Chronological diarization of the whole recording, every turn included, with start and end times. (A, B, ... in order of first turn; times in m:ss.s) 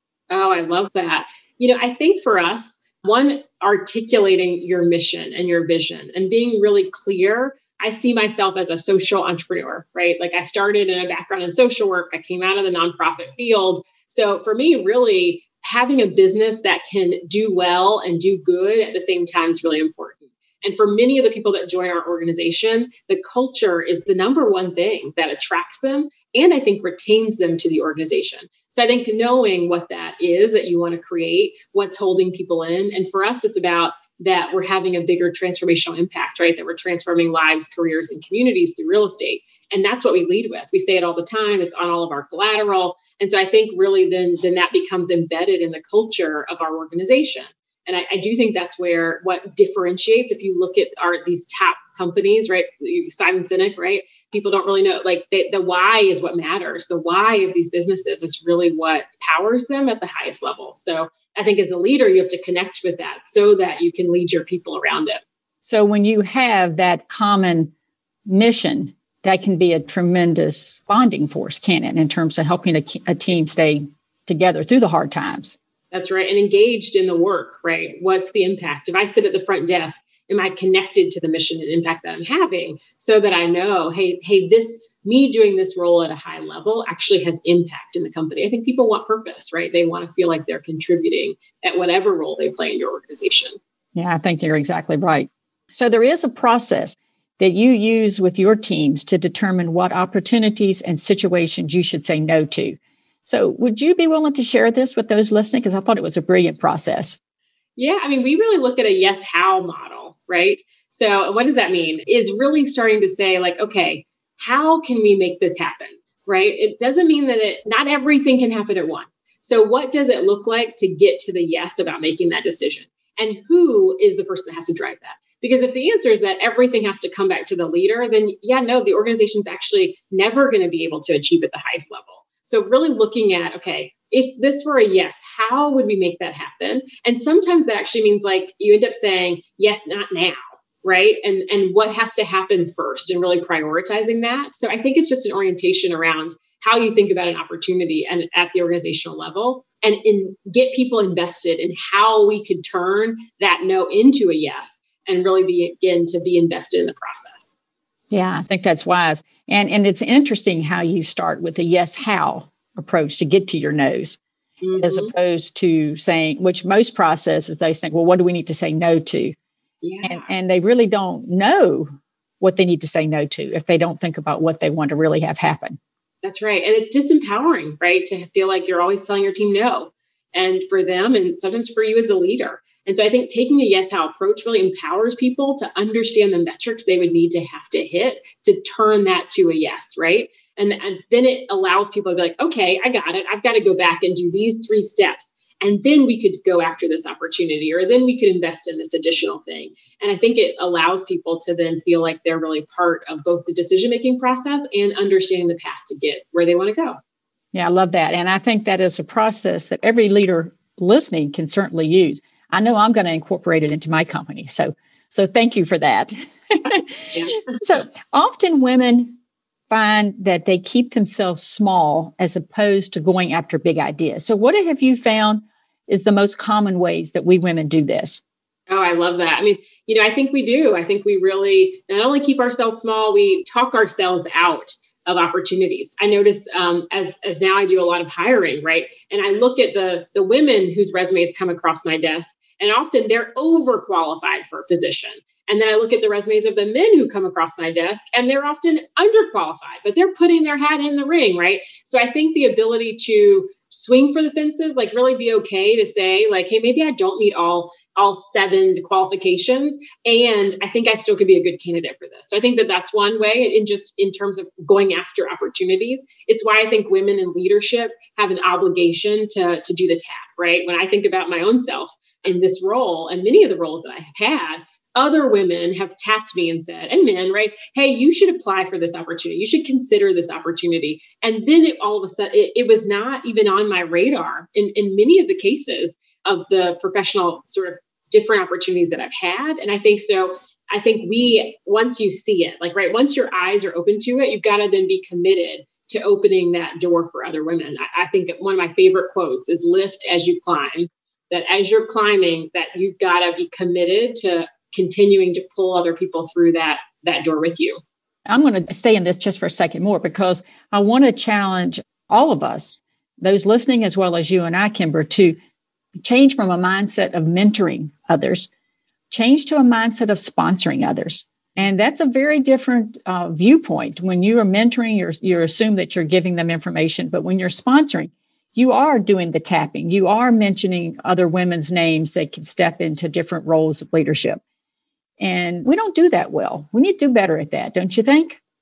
0:00.3-1:05.2 A
1:05.6-1:07.7 B
1:08.2-1:15.6 B
1:15.9-1:33.6 A
1:33.9-1:47.2 B
1:47.8-2:37.6 A
2:38.1-2:44.2 B
2:44.6-2:45.1 A
2:44.8-2:49.3 B
2:49.8-2:50.3 A
2:50.0-2:55.8 B
2:56.2-3:27.0 A
3:27.5-3:39.1 B
3:39.7-3:48.2 B
3:48.7-5:07.8 A
5:08.3-5:15.4 B
5:16.0-5:18.5 B
5:19.1-5:34.4 B
5:35.2-5:38.4 B